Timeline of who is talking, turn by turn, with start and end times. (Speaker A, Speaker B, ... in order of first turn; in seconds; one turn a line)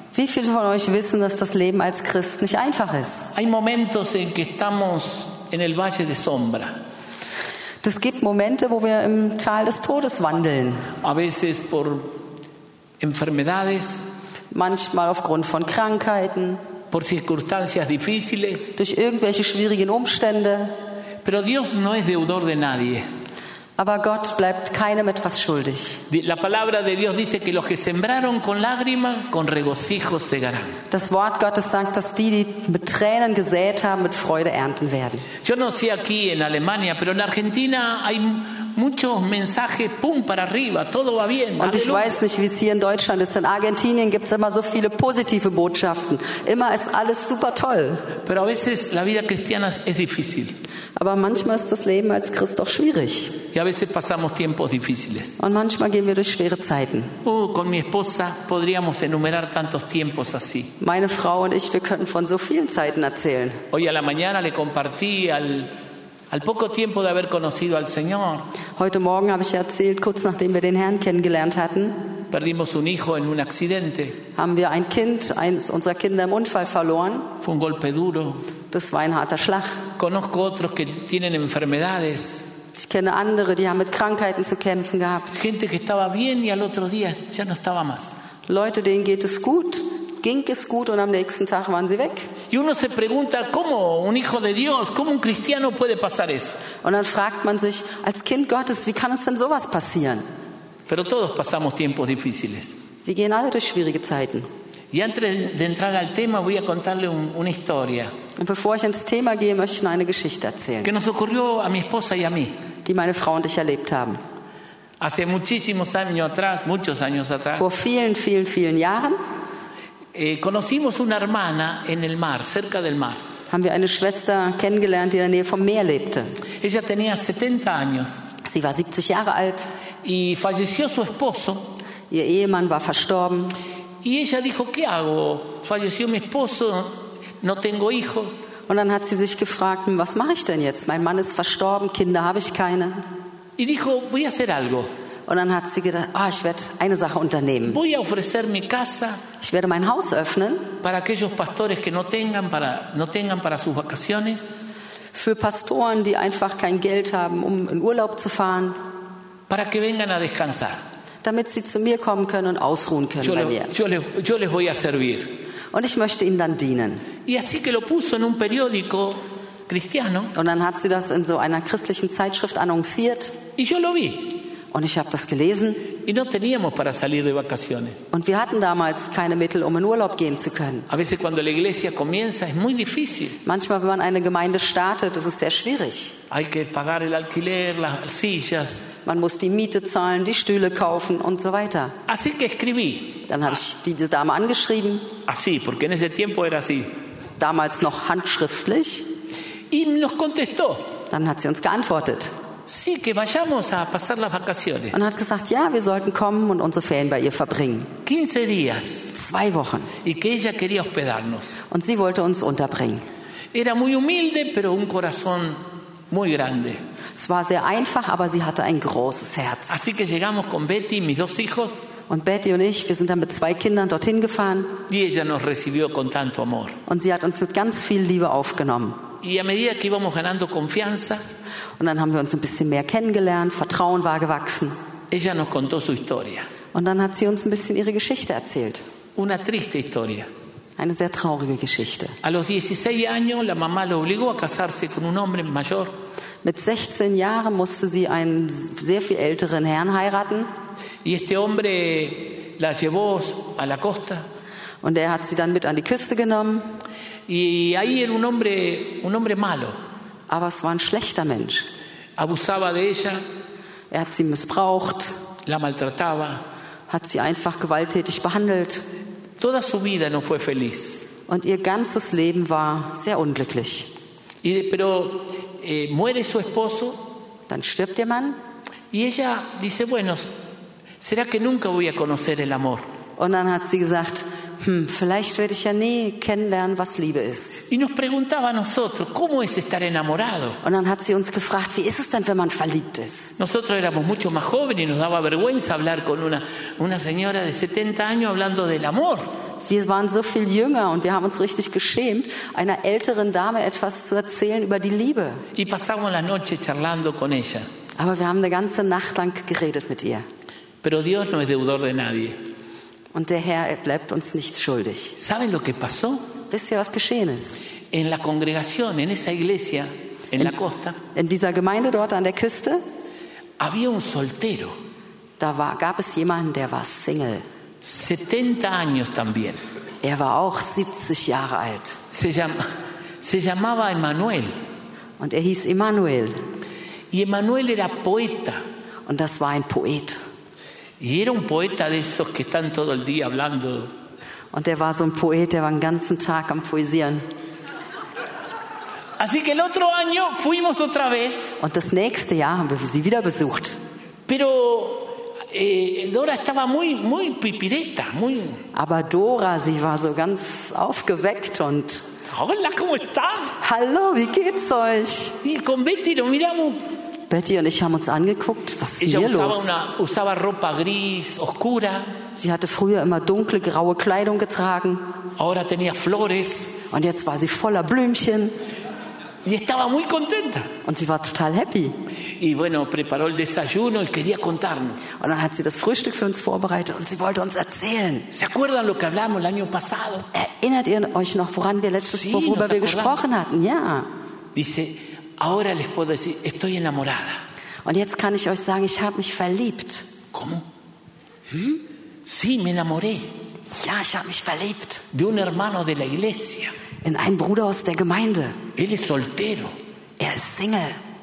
Speaker A: 0.1-3.3
Speaker B: 3.3-6.7
Speaker A: 7.8-10.9
Speaker B: 11.0-12.2
Speaker B: 13.0-14.0
Speaker A: 14.5-16.6
Speaker B: 16.9-18.7
Speaker A: 18.8-20.8
Speaker B: 21.2-23.0
Speaker A: 23.8-26.0
Speaker B: 26.1-30.8
Speaker A: 30.9-35.3
Speaker B: 35.4-42.2
Speaker A: 41.6-48.1
Speaker B: 48.2-50.5
Speaker A: 51.0-53.4
Speaker B: 53.5-55.3
Speaker A: 55.4-57.1
Speaker B: 57.2-60.7
Speaker A: 60.8-63.6
Speaker B: 63.7-65.7
Speaker B: 66.3-68.5
Speaker A: 68.8-72.1
Speaker B: 72.3-74.2
Speaker A: 74.3-77.3
Speaker B: 77.4-78.4
Speaker A: 78.7-79.8
Speaker B: 80.0-82.5
Speaker A: 82.8-85.4
Speaker B: 85.3-88.1
Speaker A: 88.5-92.3
Speaker B: 92.5-96.6
Speaker A: 96.8-100.2
Speaker B: 100.9-102.8
Speaker A: 103.0-104.5
Speaker B: 104.9-108.1
Speaker A: 108.4-110.9
Speaker B: 110.8-112.5
Speaker A: 112.8-114.2
Speaker B: 115.0-117.6
Speaker A: 117.5-119.2
Speaker B: 120.1-123.2
Speaker A: 123.5-126.3
Speaker B: 126.6-128.1
Speaker A: 128.4-129.7
Speaker B: 130.0-131.7
Speaker A: 132.1-133.6
Speaker B: 134.0-138.4
Speaker A: 138.7-143.0
Speaker B: 143.6-144.9
Speaker A: 145.3-147.8
Speaker B: 147.7-149.2
Speaker A: 149.4-150.7
Speaker B: 150.8-154.4
Speaker A: 155.1-158.8
Speaker B: 159.5-160.8
Speaker A: 161.2-163.7
Speaker B: 163.2-165.3
Speaker A: 165.7-167.0
Speaker B: 167.2-170.3
Speaker A: 170.3-173.3
Speaker B: 173.6-174.4
Speaker A: 174.7-175.9
Speaker B: 176.0-178.0
Speaker A: 178.1-180.9
Speaker B: 180.9-183.4
Speaker A: 183.4-186.1
Speaker B: 186.3-188.8
Speaker A: 189.0-191.9
Speaker B: 192.1-193.2
Speaker A: 193.3-195.1
Speaker B: 195.2-196.9
Speaker A: 197.4-199.1
Speaker B: 199.7-200.9
Speaker A: 201.1-202.3
Speaker B: 202.7-205.0
Speaker A: 204.9-207.9
Speaker B: 208.0-209.1
Speaker A: 209.1-209.9
Speaker B: 210.0-211.6
Speaker A: 211.7-213.0
Speaker B: 213.5-215.6
Speaker B: 216.1-216.8
Speaker A: 217.1-219.8
Speaker B: 219.7-221.8
Speaker A: 222.1-224.7
Speaker B: 224.9-226.8
Speaker A: 226.9-229.0
Speaker B: 229.2-231.2
Speaker A: 231.8-234.8
Speaker B: 235.1-236.5
Speaker A: 236.7-238.8
Speaker B: 239.2-240.3
Speaker A: 240.8-242.2
Speaker B: 242.2-245.9
Speaker A: 246.4-250.5
Speaker B: 251.0-254.2
Speaker A: 254.8-256.7
Speaker B: 257.3-259.8
Speaker A: 260.3-261.7
Speaker B: 262.2-263.2
Speaker A: 263.9-265.1
Speaker B: 265.4-266.4
Speaker A: 266.9-268.8
Speaker B: 269.4-271.1
Speaker A: 271.3-273.9
Speaker B: 274.4-277.0
Speaker A: 277.5-278.4
Speaker B: 278.9-280.3
Speaker B: 281.0-282.8
Speaker A: 283.2-287.6
Speaker B: 287.7-290.6
Speaker A: 290.6-293.3
Speaker B: 293.4-299.2
Speaker A: 299.6-305.4
Speaker B: 305.5-307.6
Speaker A: 308.0-310.2
Speaker B: 310.8-312.4
Speaker A: 313.1-315.2
Speaker B: 315.2-316.2
Speaker A: 316.5-317.6
Speaker B: 317.9-321.0
Speaker A: 321.1-322.8
Speaker B: 323.6-324.7
Speaker A: 325.4-327.4
Speaker B: 327.8-329.6
Speaker A: 330.0-332.0
Speaker B: 332.1-332.6
Speaker B: 333.2-334.5
Speaker A: 335.2-336.4
Speaker B: 337.1-338.6
Speaker A: 339.1-340.2
Speaker B: 341.0-343.9
Speaker A: 344.5-347.2
Speaker B: 349.2-351.5
Speaker A: 351.6-353.8
Speaker B: 354.3-358.6
Speaker A: 358.7-362.1
Speaker B: 362.3-363.5
Speaker A: 363.6-365.4
Speaker B: 365.4-366.8
Speaker A: 367.3-369.7
Speaker B: 369.0-372.1
Speaker A: 372.4-375.0
Speaker B: 375.4-376.8
Speaker A: 376.9-378.5
Speaker B: 379.4-380.7
Speaker A: 380.8-381.9
Speaker B: 382.3-385.0
Speaker A: 385.1-388.3
Speaker B: 388.3-390.3
Speaker A: 390.3-394.1
Speaker B: 392.0-393.2
Speaker B: 394.5-397.4
Speaker A: 397.8-400.1
Speaker B: 400.3-400.6
Speaker A: 401.5-401.8
Speaker B: 402.2-403.3
Speaker A: 403.7-405.1
Speaker B: 405.1-406.7
Speaker A: 407.0-408.6
Speaker B: 408.8-409.7
Speaker A: 410.2-411.0